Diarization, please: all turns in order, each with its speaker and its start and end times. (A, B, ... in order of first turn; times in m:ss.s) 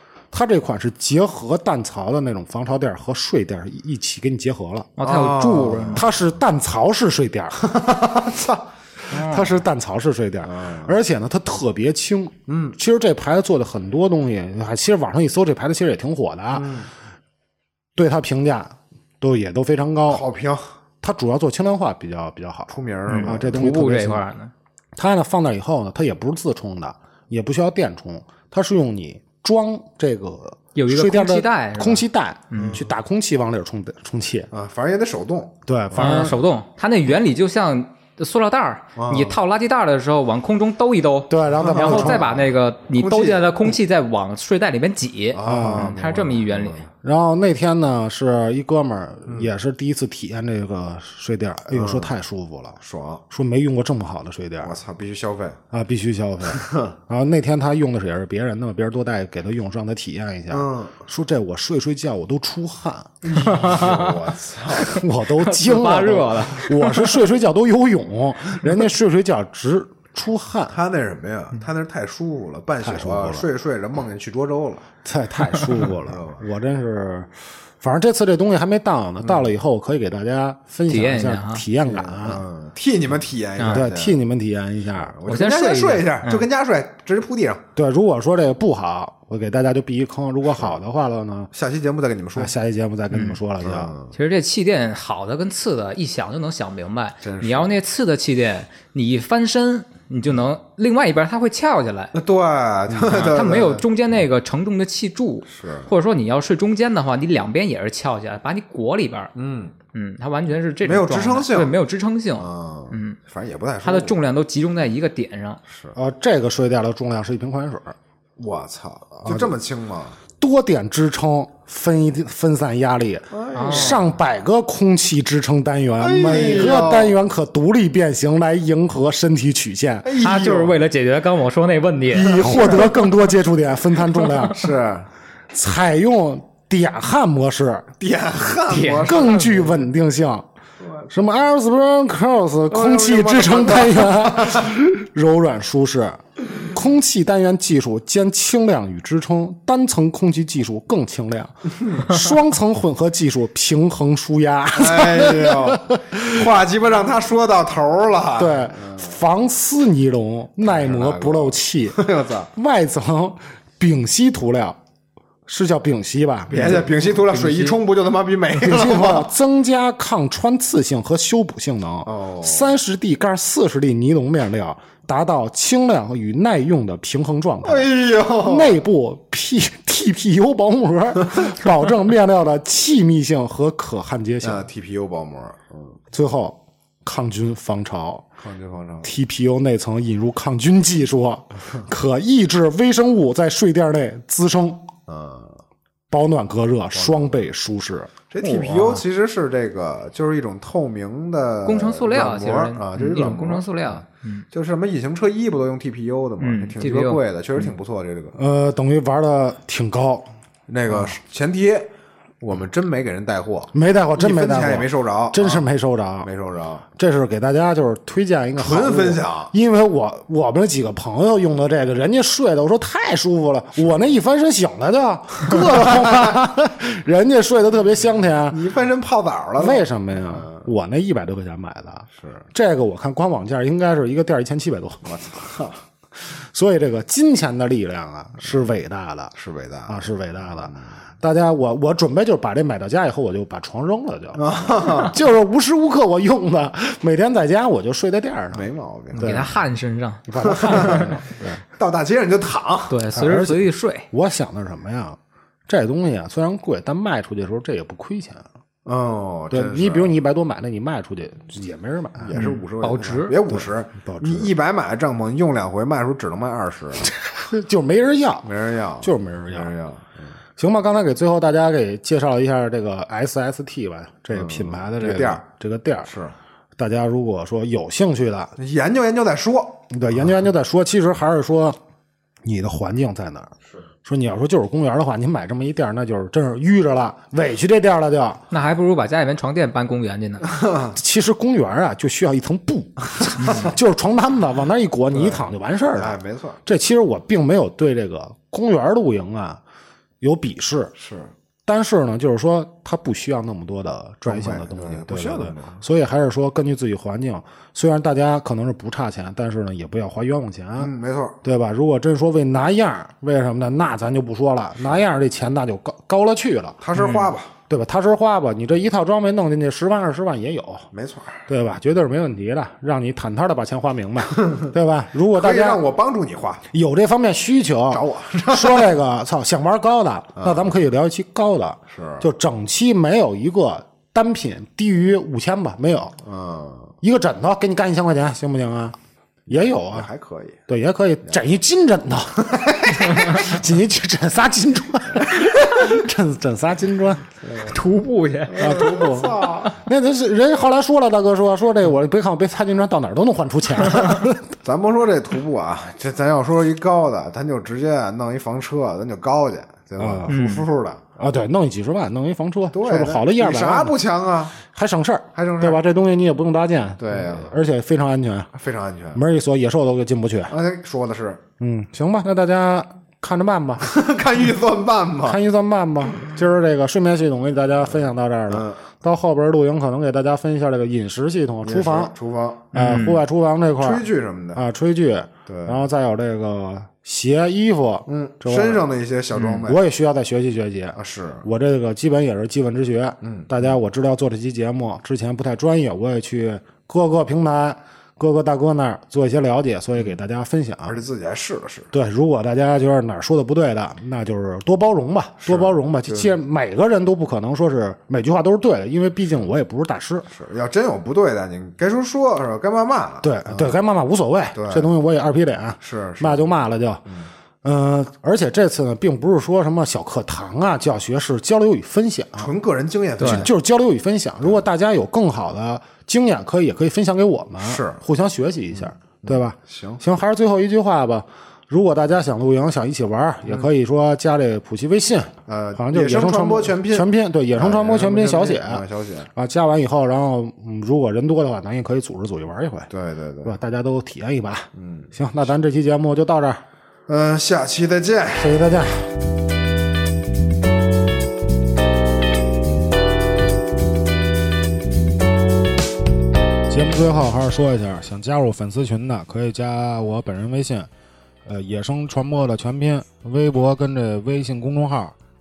0:00.3-0:04.9 A
0:05.0-0:06.0 B
0:05.0-0:06.0 C
0:05.9-0:07.6 A
0:07.6-0:08.6 C
0:09.1-0:09.6 B
0:09.1-0:16.8 A
0:10.4-0:11.0 C
0:12.5-0:12.8 C
0:16.5-0:16.9 C
0:18.0-0:20.2 A
0:20.1-0:20.6 C
0:21.0-0:24.2 A
0:22.7-0:23.6 C
0:23.1-0:24.5 B
0:25.0-0:34.5 A
0:30.7-0:32.8 B
0:32.5-0:32.9 C
0:34.5-0:35.5 C
0:35.7-0:36.4 A
0:35.9-0:46.8 B
0:39.0-0:39.4 C
0:41.3-0:42.4 A
0:41.6-0:42.3 C
0:43.0-0:43.5 C
0:45.3-0:46.9 C
0:45.4-0:45.9 A
0:47.0-0:52.8 A
0:51.7-0:52.1 C
0:52.8-0:53.2 C
0:53.3-0:54.8 A
0:54.6-0:55.6 C
0:55.7-1:03.9 A
0:56.5-0:57.0 C
1:00.5-1:01.0 C
1:03.2-1:05.0 C
1:03.5-1:03.9 B
1:04.8-1:10.8 A
1:05.2-1:07.2 B
1:10.7-1:14.8 C
1:12.8-1:13.5 A
1:15.0-1:22.4 A
1:16.0-1:16.4 C
1:19.2-1:19.5 C
1:20.9-1:21.6 B
1:21.8-1:24.2 C
1:23.7-1:25.2 A
1:25.0-1:27.6 C
1:25.2-1:26.5 B
1:27.8-1:31.5 A
1:31.5-1:32.5 C
1:32.4-1:33.9 A
1:33.1-1:33.4 B
1:33.6-1:34.1 C
1:34.1-1:42.1 B
1:37.2-1:37.8 C
1:42.1-1:43.8 C
1:43.0-1:49.3 B
1:45.5-1:45.9 C
1:49.3-1:49.7 C
1:49.9-1:53.2 B
1:50.8-1:51.7 C
1:52.4-1:54.1 C
1:53.8-1:55.6 B
1:55.7-1:56.0 C
1:55.9-1:57.9 A
1:58.4-2:00.2 C
1:59.2-1:59.5 A
2:00.4-2:10.2 A
2:03.3-2:04.0 C
2:03.5-2:04.0 B
2:06.0-2:07.2 C
2:10.0-2:10.8 C
2:10.2-2:12.6 B
2:12.1-2:14.7 A
2:12.3-2:12.8 C
2:14.5-2:15.1 C
2:15.5-2:17.9 A
2:18.0-2:19.8 C
2:18.7-2:19.4 B
2:19.0-2:20.4 A
2:20.8-2:21.1 C
2:21.1-2:36.4 A
2:22.7-2:24.7 C
2:34.7-2:39.2 C
2:38.4-2:42.0 A
2:40.6-2:42.5 C
2:42.5-2:44.8 A
2:45.5-2:46.9 A
2:46.5-2:49.3 C
2:46.6-2:47.8 B
2:48.6-3:04.7 A
2:52.0-2:52.8 C
2:57.6-2:58.8 C
3:04.4-3:06.0 C
3:06.1-3:08.2 A
3:08.4-3:09.1 C
3:09.0-3:14.9 A
3:15.1-3:15.6 C
3:16.1-3:18.1 A
3:16.9-3:17.3 C
3:18.3-3:28.4 C
3:18.4-3:19.0 B
3:21.6-3:24.4 B
3:26.4-3:27.2 B
3:28.4-3:30.3 A
3:30.7-3:31.9 C
3:32.4-3:35.7 C
3:33.7-3:36.3 A
3:36.2-3:36.8 C
3:37.0-3:48.7 A
3:38.6-3:39.5 C
3:48.5-3:50.7 C
3:49.6-3:55.3 A
3:52.2-3:52.4 C
3:55.0-3:55.8 C
3:56.4-3:59.3 A
3:59.3-4:00.1 C
3:59.9-4:09.6 A
4:04.3-4:05.1 C
4:08.5-4:09.4 C
4:09.1-4:11.1 B
4:10.3-4:11.6 A
4:10.4-4:13.0 C
4:12.9-4:14.0 B
4:13.1-4:18.5 A
4:18.8-4:20.1 C
4:19.5-4:22.4 A
4:22.2-4:27.1 C
4:22.3-4:23.4 B
4:23.5-4:24.5 A
4:27.1-4:28.5 A
4:28.4-4:30.3 C
4:29.0-4:29.7 A
4:30.6-4:36.1 A
4:34.3-4:35.4 C
4:36.0-4:36.3 C
4:36.8-4:38.5 A
4:38.6-4:39.9 C
4:39.9-4:41.8 A
4:42.4-4:43.5 A
4:44.0-4:48.4 A
4:48.5-4:50.4 B
4:50.5-4:50.9 C
4:50.9-4:59.6 A
4:53.4-4:53.7 C
4:55.1-4:56.6 C
5:00.2-5:00.9 A
5:01.0-5:01.3 C
5:01.6-5:10.9 A
5:04.2-5:05.8 C
5:10.8-5:11.4 C
5:11.4-5:16.8 A
5:16.8-5:17.5 C
5:17.0-5:17.3 B
5:17.7-5:20.9 A
5:20.9-5:21.4 C
5:21.5-5:25.8 A
5:25.3-5:26.6 C
5:26.7-5:36.2 A
5:27.9-5:28.9 C
5:30.4-5:30.7 C
5:31.9-5:32.2 C
5:36.2-5:36.9 C
5:37.0-5:39.0 A
5:39.5-5:40.1 A
5:39.6-5:40.6 C
5:40.7-5:47.3 A
5:42.5-5:43.4 C
5:47.4-5:47.8 C
5:47.6-5:49.0 B
5:48.4-5:49.7 C
5:48.6-5:54.5 A
5:54.6-6:01.2 C
6:00.0-6:00.3 A
6:00.3-6:00.7 B
6:01.2-6:04.0 A
6:02.7-6:04.6 C
6:04.6-6:08.5 A
6:05.3-6:05.8 C
6:07.0-6:07.5 C
6:08.5-6:09.2 C
6:09.1-6:10.5 A
6:10.5-6:11.4 C
6:11.6-6:13.9 A
6:13.8-6:15.4 C
6:15.2-6:22.1 A
6:18.5-6:18.8 C
6:21.6-6:22.6 C
6:22.7-6:23.2 B
6:22.7-6:28.9 A
6:23.8-6:24.6 C
6:25.4-6:25.8 C
6:28.0-6:29.8 C
6:29.4-6:29.6 B
6:29.6-6:41.0 A
6:30.9-6:31.4 C
6:33.2-6:33.7 C
6:40.8-6:41.9 C
6:41.9-6:50.3 A
6:45.4-6:46.3 C
6:50.3-6:53.8 C
6:53.2-6:57.0 A
6:54.5-6:54.9 C
6:55.8-6:57.3 C
6:57.6-7:02.5 A
7:02.4-7:03.5 C
7:03.2-7:03.4 B
7:03.2-7:18.8 A
7:07.6-7:08.0 C
7:08.7-7:10.0 C
7:15.5-7:19.3 C
7:19.3-7:22.9 A
7:22.9-7:23.5 C
7:23.4-7:26.6 A
7:24.7-7:25.1 C
7:27.1-7:28.6 C
7:28.4-7:29.1 A
7:36.7-7:40.9 A
7:41.4-7:45.1 A